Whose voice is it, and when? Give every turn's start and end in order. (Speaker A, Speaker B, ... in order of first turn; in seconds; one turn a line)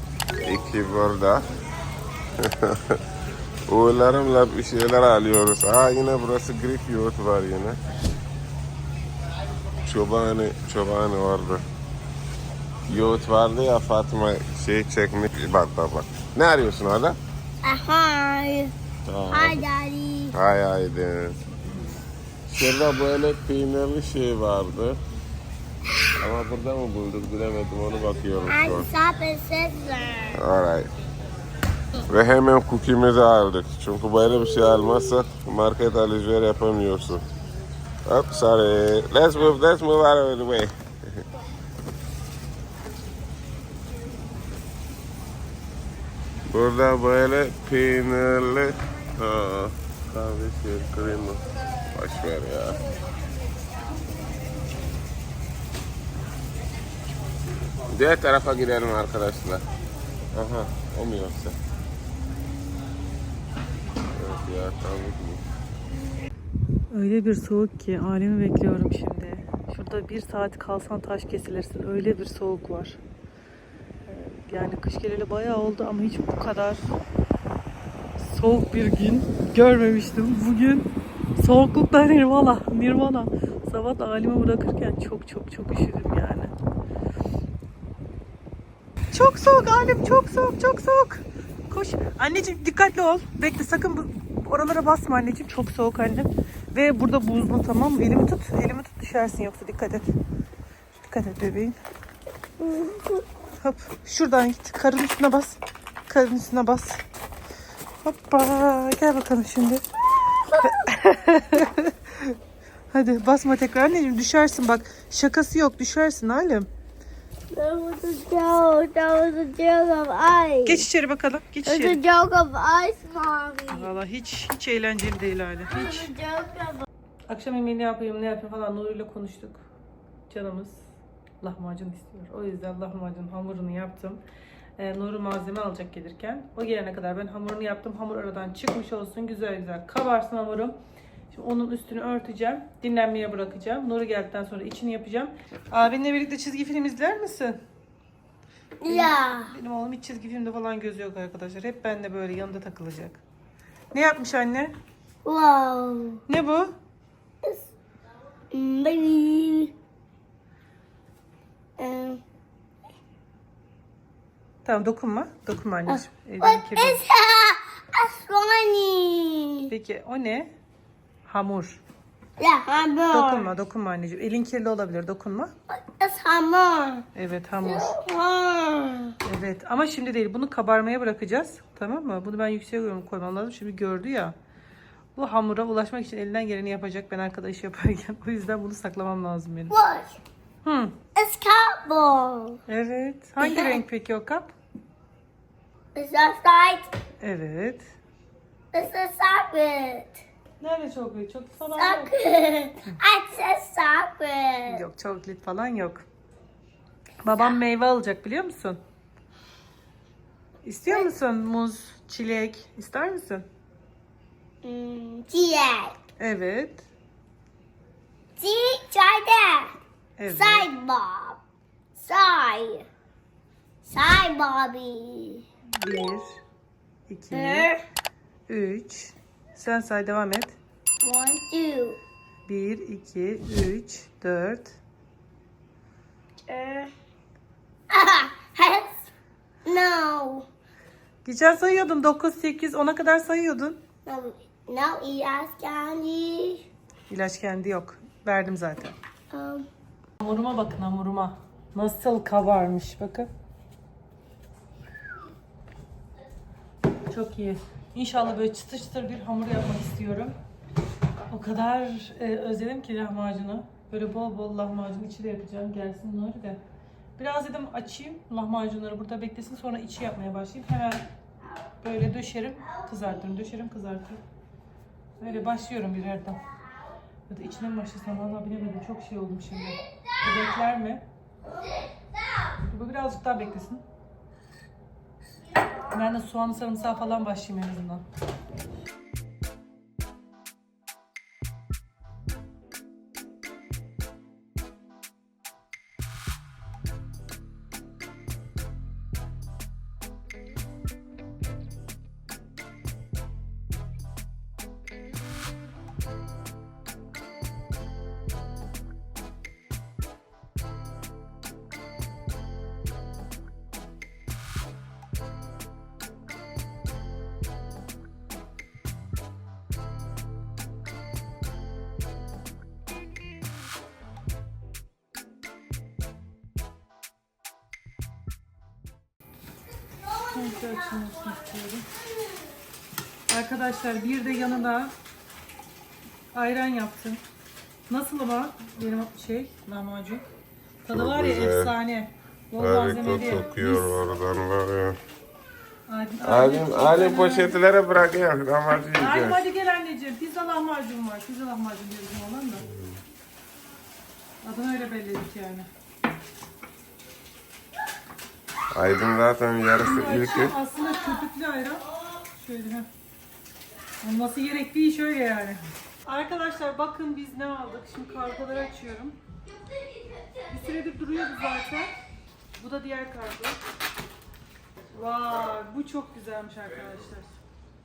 Speaker A: 0.4-1.5
Speaker A: 2.4-3.0
Speaker A: 3.7-7.8
Speaker A: 9.8-11.6
Speaker A: 12.9-17.2
Speaker B: 17.6-18.7
Speaker A: 19.1-19.6
Speaker B: 19.3-20.3
Speaker A: 20.3-21.5
Speaker A: 22.5-25.0
Speaker A: 26.2-28.9
Speaker B: 28.5-30.4
Speaker A: 30.3-30.9
Speaker A: 32.1-37.2
Speaker A: 38.0-41.2
Speaker A: 46.5-52.8
Speaker A: 57.9-59.6
Speaker A: 60.3-61.6
Speaker A: 64.1-65.4
Speaker C: 66.9-73.0
Speaker C: 74.1-76.9
Speaker C: 78.2-86.5
Speaker C: 89.1-100.0
Speaker C: 101.0-101.8
Speaker B: 102.6-103.2
Speaker C: 103.6-107.0
Speaker C: 108.0-109.8
Speaker B: 110.5-110.8
Speaker C: 110.6-112.4
Speaker C: 112.9-116.7
Speaker B: 117.5-120.8
Speaker C: 120.7-122.0
Speaker B: 121.6-123.9
Speaker C: 123.7-126.1
Speaker B: 125.7-126.8
Speaker C: 127.3-129.6
Speaker C: 130.3-130.8
Speaker C: 131.4-134.2
Speaker C: 134.8-140.8
Speaker C: 141.3-147.6
Speaker B: 148.8-149.5
Speaker C: 148.9-153.2
Speaker C: 153.9-154.7
Speaker B: 155.2-156.2
Speaker C: 156.3-156.7
Speaker B: 158.5-159.7
Speaker B: 161.8-162.2
Speaker C: 164.6-167.0
Speaker B: 165.9-169.7
Speaker C: 169.7-170.5
Speaker C: 171.2-171.8
Speaker B: 172.4-173.5
Speaker C: 173.1-175.5
Speaker B: 175.7-177.1
Speaker C: 177.1-177.9
Speaker B: 177.6-179.2
Speaker C: 179.2-184.3
Speaker C: 185.2-189.7
Speaker B: 189.7-190.2
Speaker C: 190.6-191.0
Speaker B: 191.1-192.6
Speaker C: 192.7-194.5
Speaker B: 193.4-193.8
Speaker B: 195.9-196.9
Speaker C: 197.2-197.9
Speaker B: 198.7-200.2
Speaker C: 200.6-202.1
Speaker B: 201.7-204.8
Speaker C: 204.7-206.0
Speaker C: 207.2-208.8
Speaker C: 210.6-213.4
Speaker B: 214.6-216.0
Speaker C: 216.2-216.8
Speaker B: 218.4-219.7
Speaker C: 220.2-220.7
Speaker B: 220.3-221.4
Speaker B: 221.9-222.9
Speaker B: 223.8-225.4
Speaker C: 225.7-226.4
Speaker C: 227.1-227.7
Speaker B: 227.3-227.8
Speaker C: 228.5-230.6
Speaker B: 231.0-232.0
Speaker C: 232.5-234.8
Speaker B: 236.5-236.9
Speaker B: 237.9-238.9
Speaker B: 239.6-240.5
Speaker C: 241.2-243.8
Speaker B: 244.1-246.7
Speaker C: 247.1-248.9
Speaker B: 249.3-249.7
Speaker C: 250.2-253.3
Speaker C: 257.1-260.3
Speaker C: 261.3-266.6
Speaker C: 267.2-271.1
Speaker C: 271.8-274.2
Speaker C: 275.2-276.4
Speaker C: 277.3-281.0
Speaker C: 282.7-283.8
Speaker C: 285.9-288.0
Speaker C: 330.3-331.9
Speaker C: 333.3-334.9
Speaker C: 336.3-337.2
Speaker C: 337.9-340.2
Speaker C: 340.8-344.1
Speaker A: 340.9-341.7
Speaker A: 342.6-345.0
Speaker C: 345.9-347.6
Speaker A: 346.2-349.4
Speaker C: 349.0-352.6
Speaker A: 352.6-353.0
Speaker C: 354.4-355.7
Speaker A: 358.7-360.5
Speaker C: 359.8-362.9
Speaker C: 364.0-369.2
Speaker C: 370.5-371.9
Speaker C: 372.6-373.6
Speaker A: 374.9-375.6
Speaker C: 374.9-377.3
Speaker A: 376.7-377.1